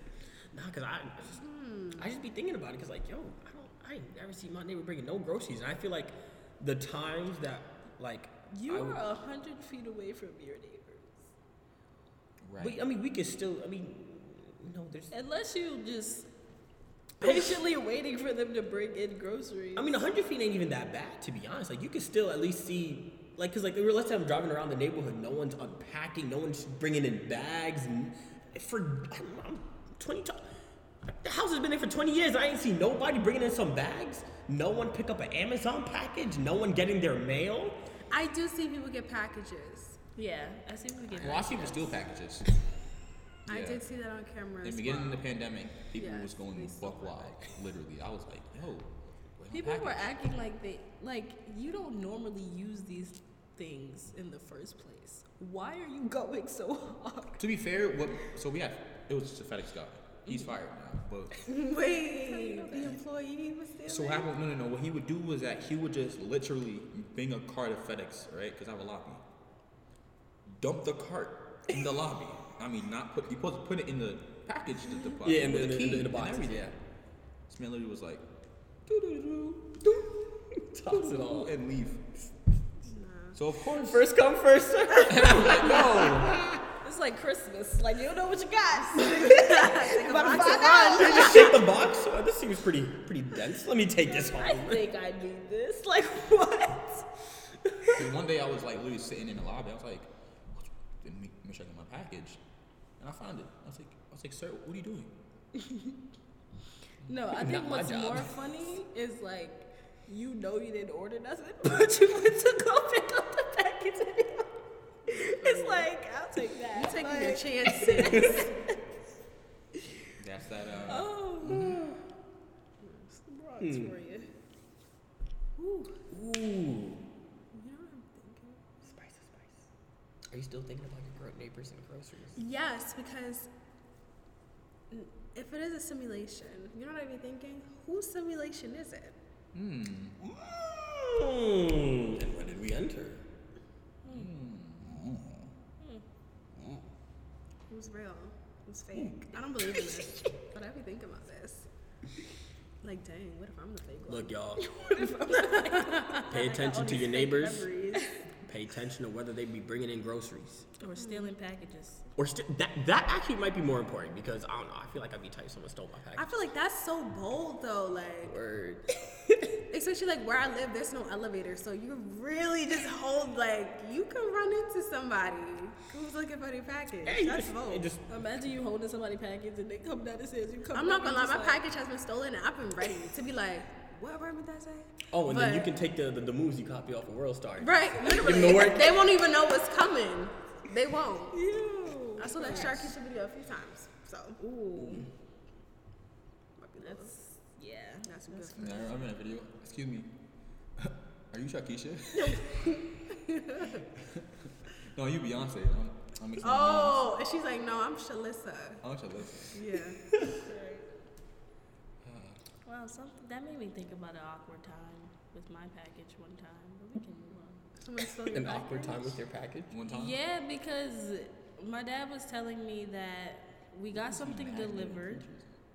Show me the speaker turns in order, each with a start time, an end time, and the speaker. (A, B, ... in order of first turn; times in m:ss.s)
0:00.5-0:09.0 A
0:01.4-0:02.1 B
0:08.5-0:11.2 C
0:12.4-0:12.8 D
0:12.6-0:15.1 A
0:15.1-0:16.3 C
0:17.2-0:20.0 C
0:17.2-0:17.6 A
0:19.8-0:30.5 A
0:31.0-0:37.8 A
0:38.1-0:40.0 B
0:40.2-0:42.0 C
0:41.1-0:42.5 D
0:43.5-0:43.8 D
0:43.5-0:45.2 B
0:44.6-0:50.1 D
0:46.0-0:47.4 B
0:49.5-0:57.4 C
0:57.4-1:01.4 D
1:00.2-1:00.5 C
1:01.4-1:04.3 B
1:02.0-1:02.9 C
1:03.8-1:09.2 D
1:10.5-1:16.7 D
1:15.2-1:16.7 A
1:17.5-1:18.2 D
1:18.9-1:20.1 D
1:19.8-1:21.5 A
1:20.9-1:22.0 D
1:22.8-1:23.4 B
1:23.3-1:24.1 D
1:23.8-1:26.6 A
1:25.0-1:26.5 D
1:26.8-1:31.6 C
1:29.0-1:31.6 B
1:30.2-1:34.8 A
1:34.2-1:37.1 C
1:37.8-1:42.4 D
1:43.0-1:45.1 D
1:47.0-1:54.5 C
1:47.3-1:48.3 A
1:55.1-1:58.7 C
1:55.1-1:55.9 B
1:56.7-1:58.5 B
1:58.1-1:58.4 A
2:00.2-2:01.8 D
2:00.9-2:01.8 C
2:01.4-2:01.9 A
2:03.1-2:04.3 C
2:03.6-2:03.9 A
2:05.6-2:06.0 B
2:06.1-2:07.0 A
2:07.5-2:08.6 B
2:08.8-2:09.6 A
2:10.3-2:12.4 A
2:12.4-2:13.5 B
2:14.9-2:19.2 B
2:19.5-2:20.2 D
2:20.2-2:23.2 A
2:24.0-2:24.3 C
2:24.1-2:25.5 D
2:26.6-2:26.8 A
2:27.7-2:31.7 B
2:32.8-2:34.3 B
2:34.1-2:34.6 A
2:34.6-2:38.2 C
2:35.0-2:36.1 B
2:36.2-2:37.7 A
2:37.6-2:38.0 B
2:38.4-2:40.7 A
2:40.8-2:42.0 C
2:40.9-2:41.3 B
2:42.2-2:46.4 A
2:46.2-2:48.3 B
2:48.2-2:49.4 A
2:49.7-2:57.8 B
2:57.0-2:58.0 A
2:58.1-3:01.6 C
3:00.7-3:05.7 B
3:05.1-3:09.1 A
3:07.6-3:11.4 B
3:08.3-3:08.7 C
3:11.3-3:12.8 C
3:12.2-3:14.4 B
3:14.4-3:15.1 C
3:14.8-3:15.0 A
3:16.6-3:17.1 B
3:16.8-3:18.8 C
3:18.0-3:18.9 B
3:18.5-3:20.1 D
3:20.8-3:22.5 D
3:22.2-3:23.8 B
3:24.0-3:27.1 D
3:26.4-3:28.8 B
3:28.8-3:29.6 D
3:29.5-3:30.0 B
3:30.4-3:30.9 C
3:32.0-3:32.4 D
3:32.6-3:37.6 C
3:37.8-3:39.2 B
3:38.2-3:39.7 A
3:39.7-3:40.2 D
3:39.9-3:45.2 C
3:43.9-3:45.5 D